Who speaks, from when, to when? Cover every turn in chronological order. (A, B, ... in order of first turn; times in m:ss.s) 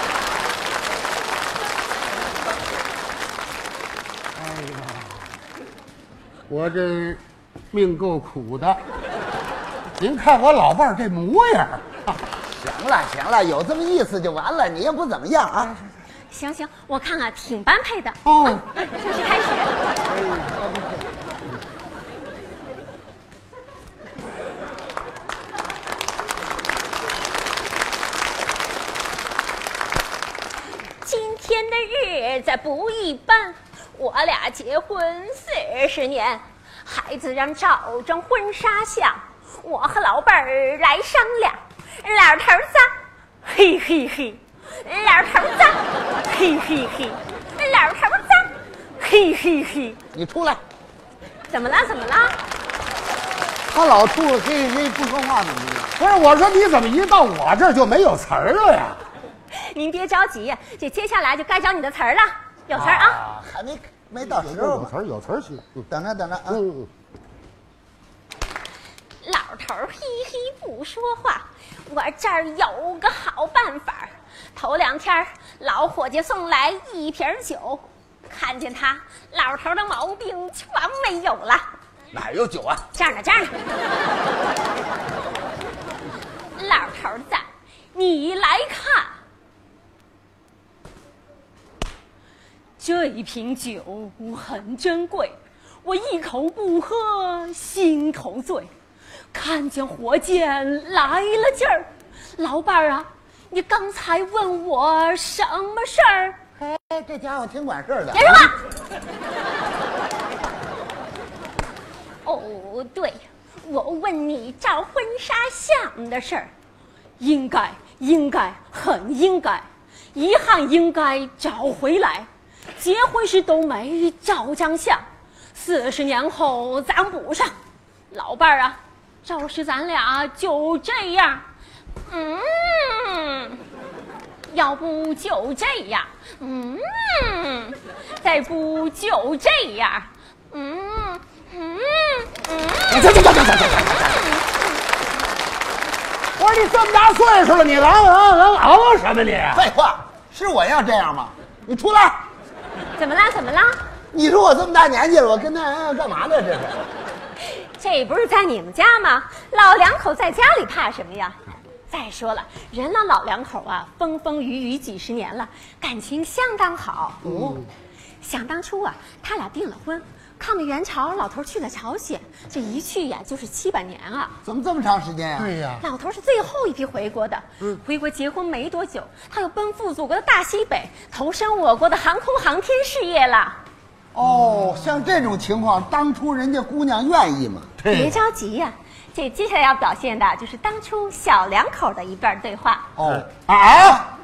0:04.4-0:05.3 A
0:06.5-0:08.8 A
0:10.0-0:12.1 A
0:12.4-0:15.7 B
0:16.3-0:19.7 C
0:18.2-0:18.6 A
0:20.4-0:20.9 B
0:31.0-0:42.9 C
0:43.4-0:50.0 C
0:50.1-0:50.6 B
0:51.5-0:52.4 C
0:53.7-0:56.0 B
0:56.0-0:59.0 A
0:59.5-1:03.2 C
1:02.8-1:04.9 B
1:04.2-1:05.8 A
1:05.9-1:06.6 B
1:06.5-1:06.9 A
1:09.2-1:21.6 C
1:22.1-1:22.8 B
1:22.9-1:23.5 C
1:26.6-1:29.2 C
1:32.8-1:38.7 C
1:39.3-1:46.4 C
1:46.6-1:48.5 B
1:48.1-1:48.5 C
1:52.2-1:56.5 C
1:57.2-2:05.0 C
2:05.5-2:07.5 C
2:08.1-2:11.4 C
2:12.1-2:13.6 C
2:14.5-2:23.1 C
2:22.9-2:24.1 A
2:24.0-2:24.6 C
2:26.4-2:29.6 A
2:29.5-2:32.2 B
2:33.0-2:33.8 C
2:34.1-2:36.9 B
2:37.8-2:41.4 C
2:41.9-2:47.2 C
2:47.2-2:47.6 B
2:47.2-2:47.7 A
2:48.2-2:54.3 C
2:54.4-2:55.5 B
2:55.4-2:55.8 A
2:55.8-3:03.6 C
3:04.1-3:07.8 B
3:07.8-3:08.2 A
3:07.8-3:12.9 C
3:13.0-3:13.3 B
3:13.0-3:14.1 A